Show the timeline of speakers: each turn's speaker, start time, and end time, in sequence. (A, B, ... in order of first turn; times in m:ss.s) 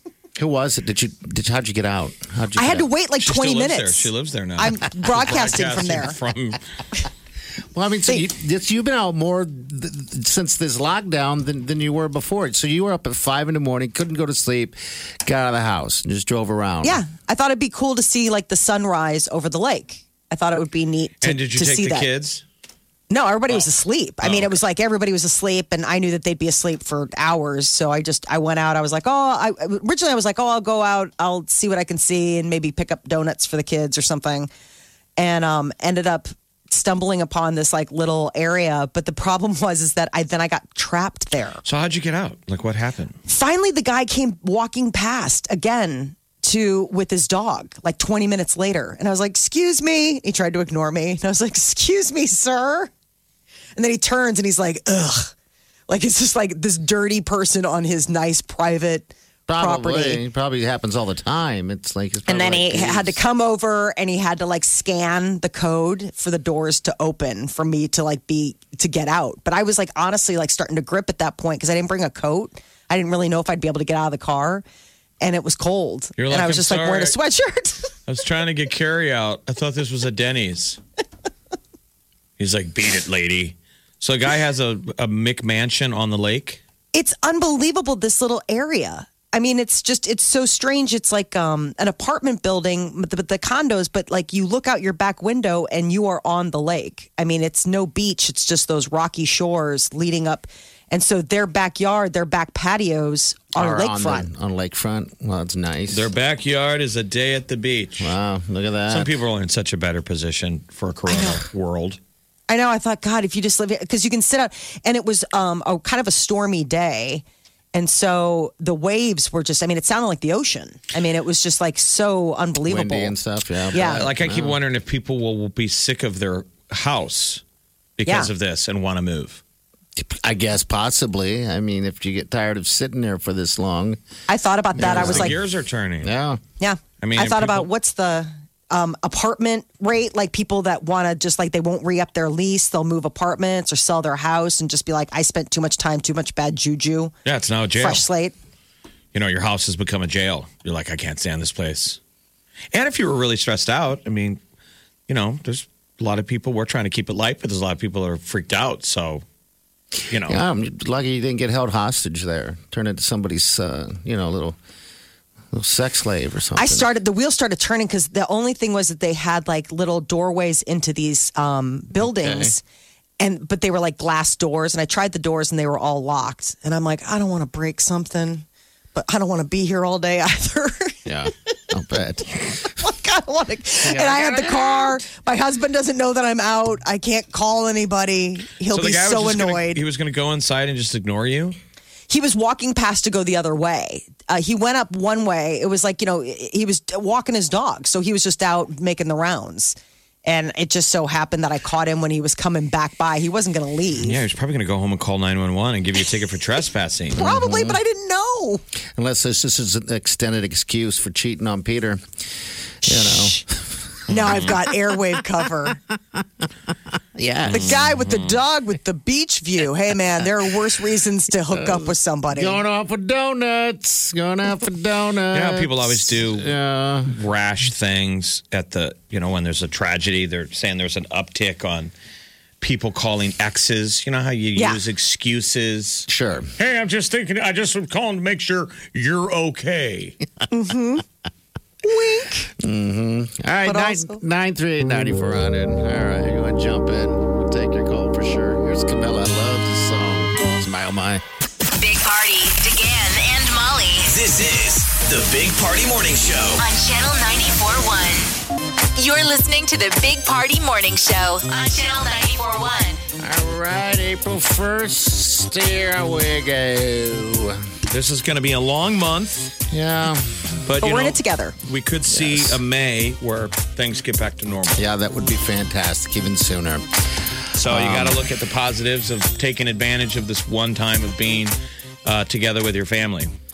0:00.4-0:02.9 A
0:02.6-0:06.2 B
0:03.2-0:06.6 C
0:07.7-0:17.0 A
0:16.8-0:22.1 B
0:21.2-0:22.4 C
0:23.1-0:34.5 B
0:24.2-0:24.5 C
0:35.2-0:41.6 B
0:41.6-0:43.2 C
0:43.3-0:52.9 B
0:53.8-0:55.3 B
0:55.9-1:00.2 B
0:59.5-1:03.2 A
1:02.3-1:14.6 B
1:15.2-1:17.9 B
1:16.2-1:17.2 C
1:18.1-1:20.8 C
1:22.4-1:26.6 C
1:26.9-1:44.3 B
1:43.6-1:46.1 A
1:45.9-1:48.1 C
1:48.0-1:49.1 A
1:48.9-1:52.0 C
1:51.1-1:51.4 B
1:52.5-2:03.2 B
2:02.6-2:04.6 A
2:03.7-2:04.1 B
2:03.7-2:07.4 C
2:08.0-2:09.4 C
2:10.0-2:14.0 A
2:14.3-2:15.4 B
2:14.7-2:15.4 A
2:14.9-2:16.1 C
2:16.0-2:16.4 A
2:16.6-2:27.1 B
2:17.0-2:17.7 C
2:27.2-2:28.1 C
2:27.8-2:28.3 B
2:29.1-2:32.0 C
2:32.7-2:34.4 C
2:35.1-2:39.2 C
2:40.1-2:40.4 C
2:40.2-2:44.6 A
2:45.5-2:46.9 A
2:46.6-2:52.6 B
2:52.0-2:52.6 A
2:53.2-3:01.0 B
3:01.1-3:02.8 A
3:02.7-3:09.8 B
3:03.8-3:05.0 A
3:08.7-3:11.6 C
3:12.1-3:24.2 B
3:24.0-3:27.2 C
3:27.2-3:28.6 B
3:27.2-3:27.8 A
3:29.0-3:32.0 A
3:32.8-3:33.4 B
3:32.8-3:33.6 A
3:34.1-3:35.8 B
3:34.1-3:34.6 C
3:35.7-3:36.5 A
3:37.2-3:37.8 A
3:37.5-3:42.6 B
3:37.5-3:38.4 C
3:41.5-3:47.1 A
3:45.3-3:46.5 C
3:47.1-3:51.9 C
3:52.6-4:00.2 C
3:56.1-3:56.5 A
4:00.5-4:01.0 B
4:01.8-4:02.5 B
4:02.6-4:11.2 A
4:03.6-4:04.2 B
4:11.8-4:14.1 D
4:14.1-4:16.6 E
4:16.6-4:18.3 D
4:19.0-4:23.0 D
4:23.2-4:27.6 A
4:27.9-4:29.5 C
4:29.7-4:30.6 A
4:30.7-4:34.9 C
4:30.8-4:31.6 B
4:32.1-4:32.6 A
4:34.8-4:36.8 A
4:37.6-4:41.6 C
4:37.6-4:38.2 A
4:42.1-4:43.3 C